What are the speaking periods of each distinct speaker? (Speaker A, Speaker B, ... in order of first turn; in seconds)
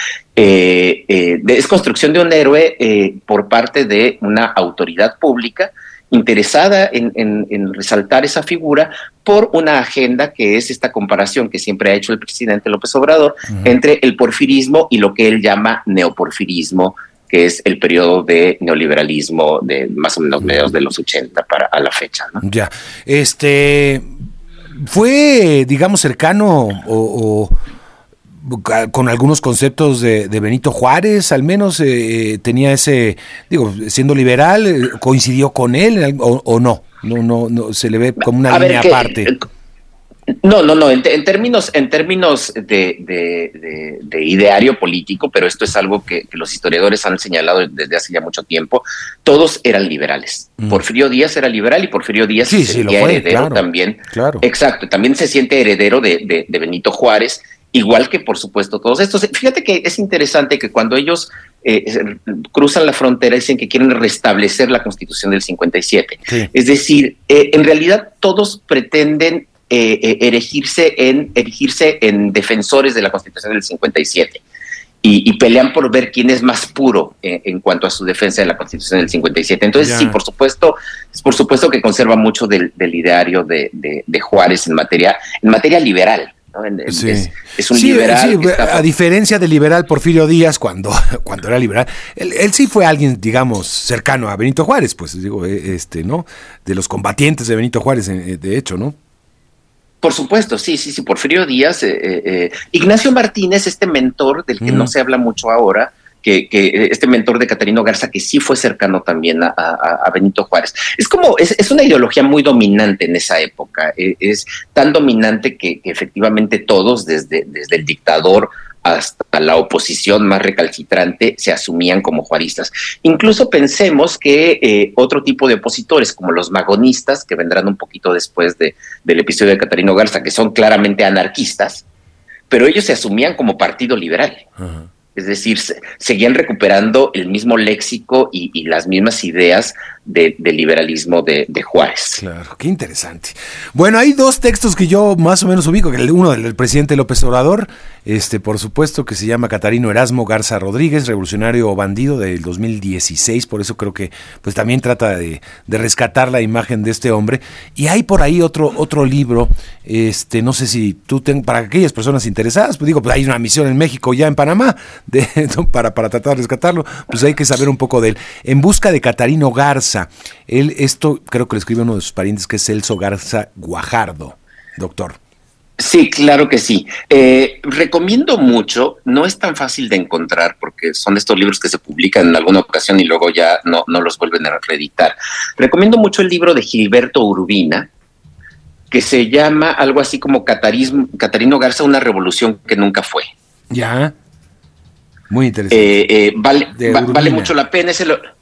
Speaker A: 0.4-22.4, 38.5-39.4, 40.4-74.4, 75.0-88.9, 100.0-131.8, 132.5-134.5, 135.2-142.2, 175.8-187.9, 188.9-193.3, 195.7-198.2
Speaker B: 22.4-24.1, 24.8-27.5, 28.4-39.3, 52.5-54.5, 79.8-80.2, 86.9-99.0, 104.6-104.9, 134.6-134.9, 142.2-175.2, 193.7-194.1, 195.3-196.0, 196.8-197.5